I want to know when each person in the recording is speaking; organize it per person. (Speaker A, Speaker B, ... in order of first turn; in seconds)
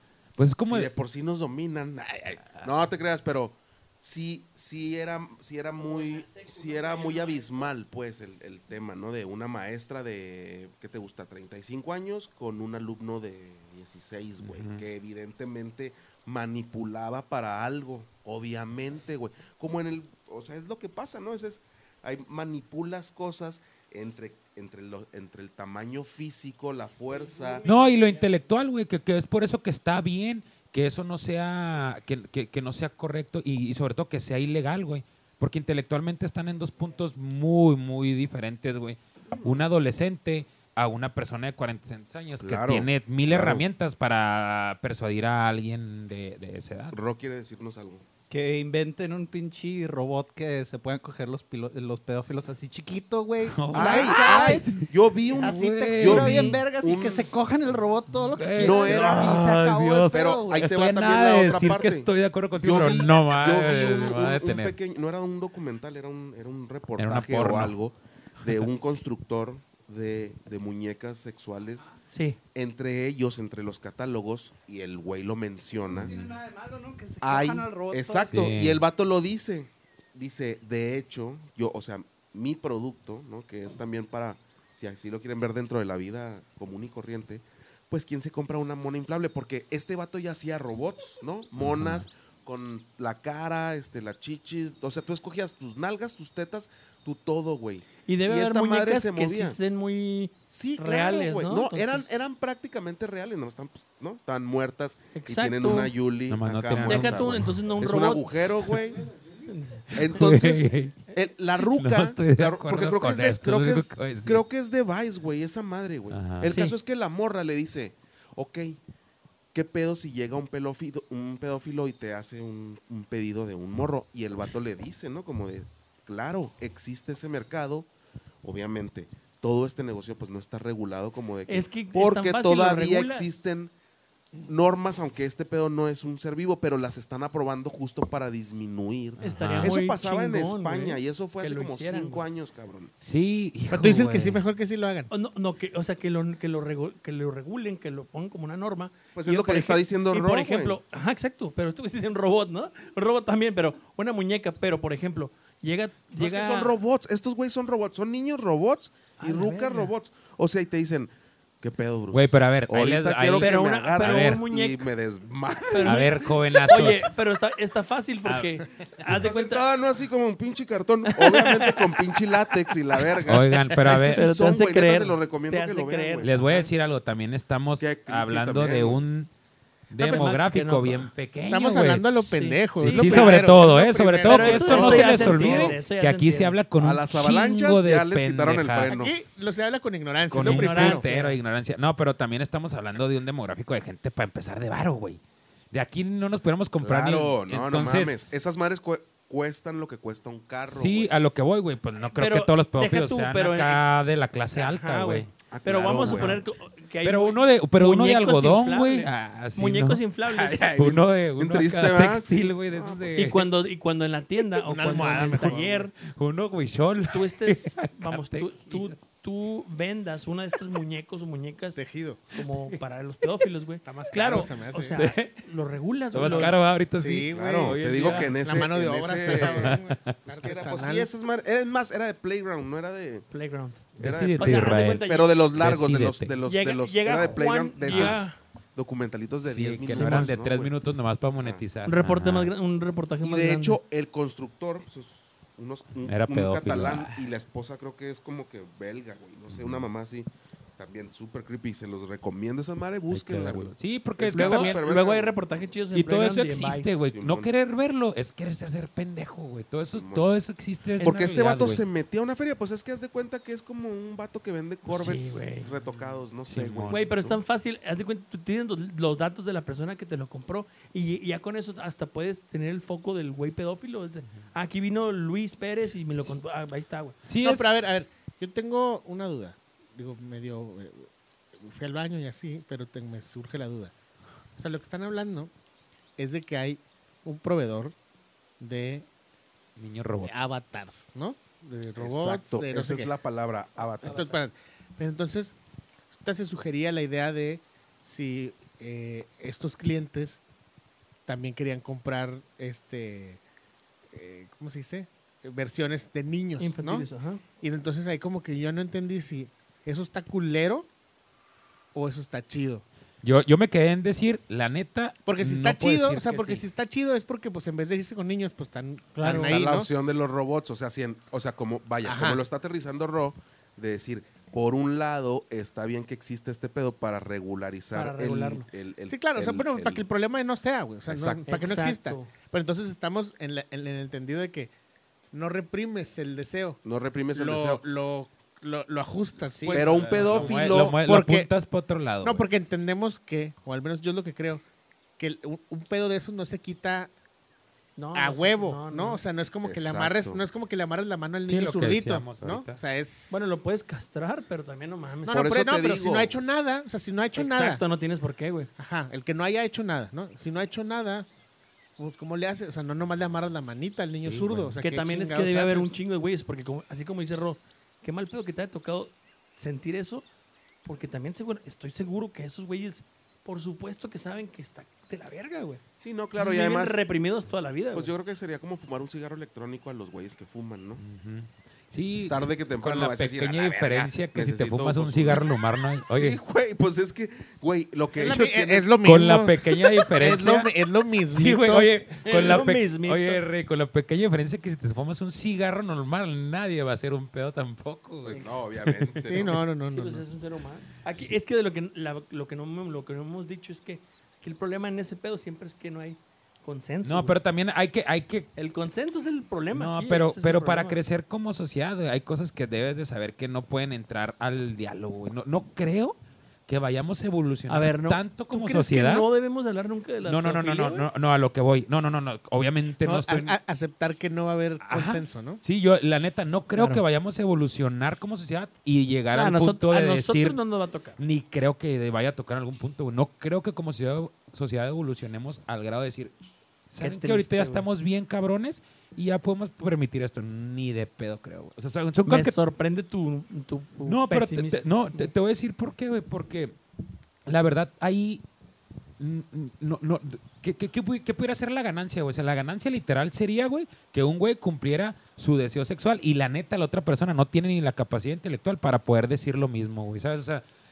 Speaker A: 0.4-0.9, 14.4-14.8, 27.6-47.0, 53.4-56.6, 58.1-64.8, 67.0-67.8, 76.1-76.3, 78.2-78.8, 91.6-92.0, 106.3-107.6, 109.9-114.4, 116.1-116.6, 139.2-139.8, 143.0-144.4, 162.1-164.4, 165.8-167.1, 168.3-168.5, 173.2-174.2, 176.2-179.3, 179.9-189.0, 190.3-195.2, 195.7-198.2, 200.7-206.4, 207.0-213.5, 214.8-218.9, 222.4-222.8, 224.3-225.3, 226.1-228.7, 229.2-230.2, 234.0-236.3, 237.9-238.2, 239.4-242.5, 246.1-247.2, 249.5-249.8, 253.1-254.8, 255.9-261.8, 265.8-267.1, 277.3-277.7, 289.8-290.4, 313.2-316.6, 339.4-342.5, 351.5-352.8, 364.2-364.8, 381.0-386.4, 389.0-390.7, 391.2-399.5, 407.0-408.5, 409.7-419.3, 420.2-423.6, 424.8-430.6, 431.2-436.3, 436.9-442.6, 444.1-446.8, 447.5-448.4, 449.2-460.6
Speaker B: 0.6-27.6, 42.4-43.6, 46.9-48.0, 53.7-57.4, 58.6-59.5, 60.1-71.9, 72.5-76.2, 77.2-99.6, 100.5-109.1, 110.0-118.8, 119.5-127.9, 128.4-133.7, 134.4-142.9, 149.2-150.8, 156.2-166.9, 169.1-176.4, 177.8-179.0, 184.6-185.8, 186.8-189.1, 196.8-201.1, 205.5-206.4, 210.3-213.3, 226.2-226.5, 227.3-233.3, 234.0-240.7, 243.2-255.4, 257.1-257.5, 259.8-260.3, 261.0-267.4, 292.0-294.4, 319.2-330.0, 331.1-331.8, 336.8-337.8, 339.7-341.0, 349.6-350.4, 355.3-356.4, 376.0-377.0, 377.9-381.0, 382.3-385.5, 386.1-388.9, 398.2-399.6
Speaker C: 5.8-7.7, 27.1-28.3, 72.1-72.4, 98.1-102.2, 105.1-105.9, 106.8-108.8, 109.5-110.0, 116.5-116.8, 131.5-133.3, 139.2-142.3, 145.1-156.7, 159.2-159.9, 163.4-164.9, 165.7-169.6, 171.1-172.2, 173.8-176.7, 180.0-181.1, 182.3-183.4, 184.2-186.6, 190.4-191.4, 202.1-203.8, 204.5-210.7, 213.2-215.9, 217.1-221.8, 222.3-226.6, 228.0-228.3, 233.3-233.8, 234.4-235.4, 236.4-238.4, 239.8-240.3, 241.8-243.8, 254.3-257.1, 261.0-261.3, 264.9-265.7, 266.9-277.2, 294.0-294.4, 306.6-307.4, 319.2-319.6, 327.9-328.7, 331.5-332.3, 348.0-349.2, 353.3-355.4, 357.3-358.7, 364.8-370.3, 370.9-375.8, 376.4-378.1, 392.2-393.4, 398.3-398.6, 399.9-407.4, 408.6-411.0, 417.7-421.1, 426.8-427.0, 429.3-431.2, 437.0-437.9, 442.3-445.3
Speaker D: 48.3-60.7, 75.8-78.5
Speaker E: 143.7-145.1, 181.5-185.2, 188.9-191.1, 214.7-215.8, 221.8-222.2, 223.8-225.1, 227.0-227.8, 228.4-231.1, 277.4-283.9, 284.6-285.5, 286.2-288.0, 288.6-289.1, 290.2-293.1, 294.0-295.6, 296.1-300.4, 301.3-303.4, 304.1-307.1, 307.6-310.9, 311.9-312.9, 315.3-319.9, 322.0-322.4, 329.1-334.7, 335.3-336.8, 337.3-341.5, 342.2-344.6, 345.2-347.1, 348.1-353.5, 355.2-357.8, 358.8-361.3, 362.0-366.0, 388.1-391.9, 399.3-400.2, 423.0-425.6